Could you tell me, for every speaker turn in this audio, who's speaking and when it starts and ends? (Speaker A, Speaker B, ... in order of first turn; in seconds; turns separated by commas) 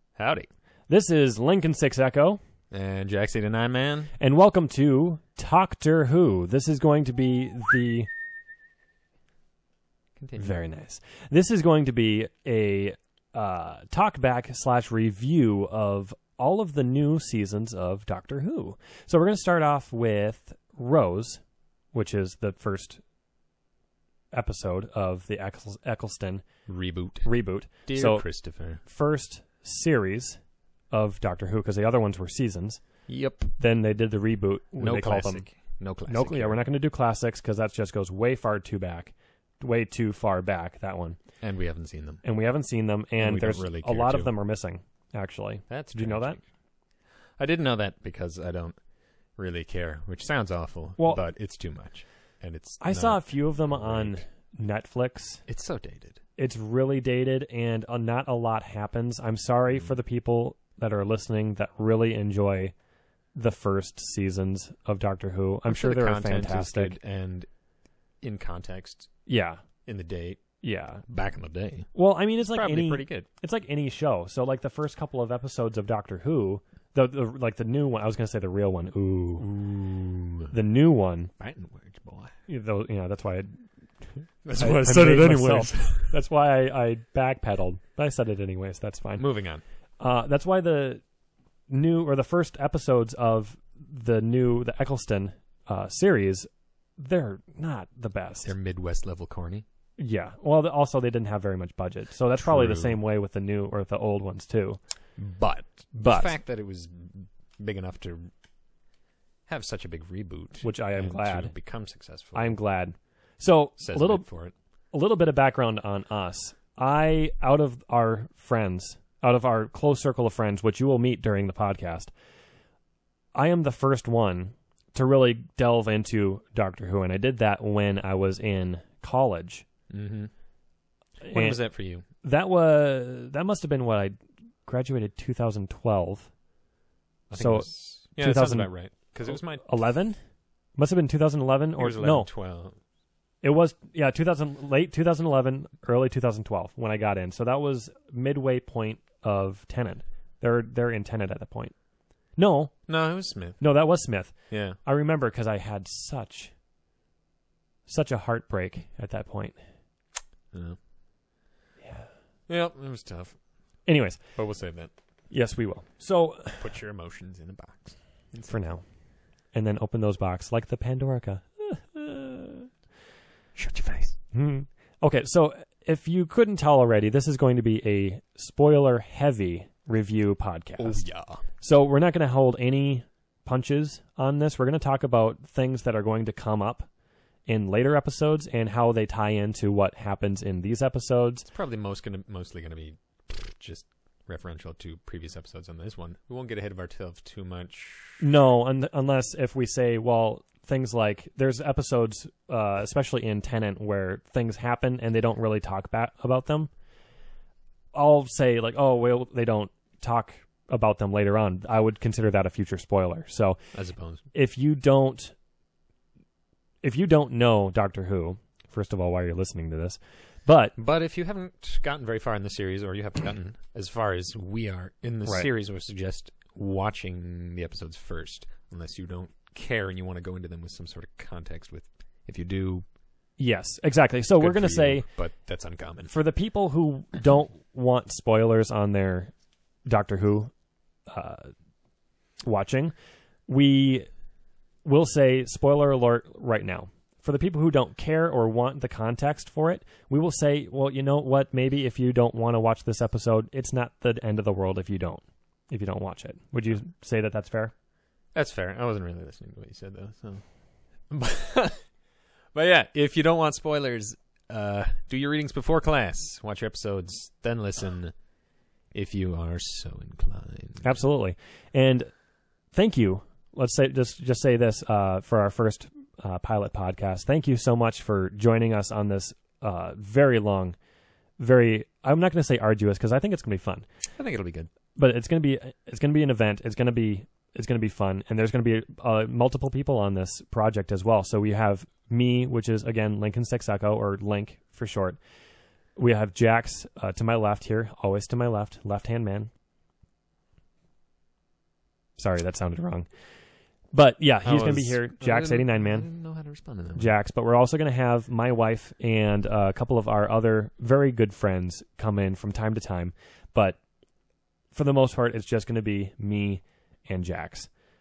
Speaker A: 0.2-0.5, Speaker B: 0.9-2.4, Speaker A: 2.7-4.1, Speaker B: 4.2-8.1, Speaker A: 10.2-10.5, Speaker B: 10.4-21.4, Speaker B: 21.9-23.0, Speaker B: 24.3-26.5, Speaker A: 26.6-28.8, Speaker B: 27.2-33.1, Speaker A: 33.1-33.5, Speaker B: 33.6-35.5, Speaker A: 34.8-36.6, Speaker B: 36.0-41.2, Speaker A: 41.4-42.2, Speaker B: 42.2-46.4, Speaker A: 43.2-44.3, Speaker A: 45.7-46.4, Speaker A: 47.4-48.8, Speaker A: 49.4-54.2, Speaker B: 51.0-51.2, Speaker B: 52.8-55.4, Speaker A: 55.5-56.2, Speaker B: 56.4-62.7, Speaker A: 59.7-60.0, Speaker B: 63.3-67.0, Speaker A: 65.7-67.5, Speaker A: 68.2-69.1, Speaker B: 69.3-69.6, Speaker A: 69.8-70.4, Speaker B: 70.6-71.0, Speaker A: 71.0-73.3, Speaker B: 71.9-79.5, Speaker A: 79.4-80.6, Speaker B: 80.5-81.3, Speaker A: 81.4-82.3, Speaker B: 82.5-89.2, Speaker A: 84.4-86.1, Speaker A: 89.2-89.6, Speaker B: 90.0-91.0, Speaker B: 91.7-98.5, Speaker A: 98.4-99.6, Speaker B: 100.0-104.8, Speaker A: 102.4-103.0, Speaker A: 105.2-108.3, Speaker B: 105.9-106.3, Speaker A: 109.5-112.6, Speaker B: 110.6-111.5, Speaker B: 112.3-114.4, Speaker A: 113.8-114.5, Speaker B: 114.9-122.1, Speaker B: 123.3-129.7, Speaker A: 129.9-130.3, Speaker B: 131.2-131.7, Speaker A: 131.2-132.0, Speaker B: 132.2-136.3, Speaker A: 137.3-139.8, Speaker B: 137.3-140.2, Speaker B: 140.8-142.3, Speaker A: 141.8-142.8, Speaker B: 143.4-151.8, Speaker B: 152.3-152.9, Speaker A: 152.9-153.8, Speaker B: 153.6-156.5, Speaker A: 154.5-154.8, Speaker B: 157.8-159.6, Speaker A: 160.5-160.8, Speaker B: 161.8-162.1, Speaker A: 162.5-163.4, Speaker B: 163.8-164.3, Speaker A: 164.3-164.9, Speaker B: 165.3-166.8, Speaker A: 166.6-168.6, Speaker B: 168.5-168.8, Speaker B: 169.5-172.7, Speaker A: 173.5-174.2, Speaker B: 174.3-186.9, Speaker A: 180.8-181.4, Speaker B: 187.5-191.5, Speaker A: 191.5-198.2, Speaker B: 198.2-206.7, Speaker B: 207.9-213.7, Speaker A: 213.7-214.2, Speaker B: 214.3-215.3, Speaker B: 216.8-220.8, Speaker A: 220.8-232.8, Speaker B: 233.4-235.1, Speaker A: 234.4-236.1, Speaker B: 236.1-239.3, Speaker B: 239.8-240.5, Speaker B: 241.1-241.5, Speaker B: 242.4-242.9, Speaker B: 243.5-244.1, Speaker B: 244.8-257.7, Speaker A: 258.3-260.5, Speaker A: 261.1-261.8, Speaker A: 262.5-268.1, Speaker A: 268.9-271.0, Speaker B: 270.8-272.1, Speaker B: 272.7-280.8, Speaker B: 281.4-283.9, Speaker A: 284.1-284.7, Speaker B: 284.9-295.2, Speaker B: 295.9-299.5, Speaker B: 302.1-303.1, Speaker B: 303.9-306.1, Speaker A: 304.4-307.1, Speaker B: 306.9-313.8, Speaker B: 314.7-317.7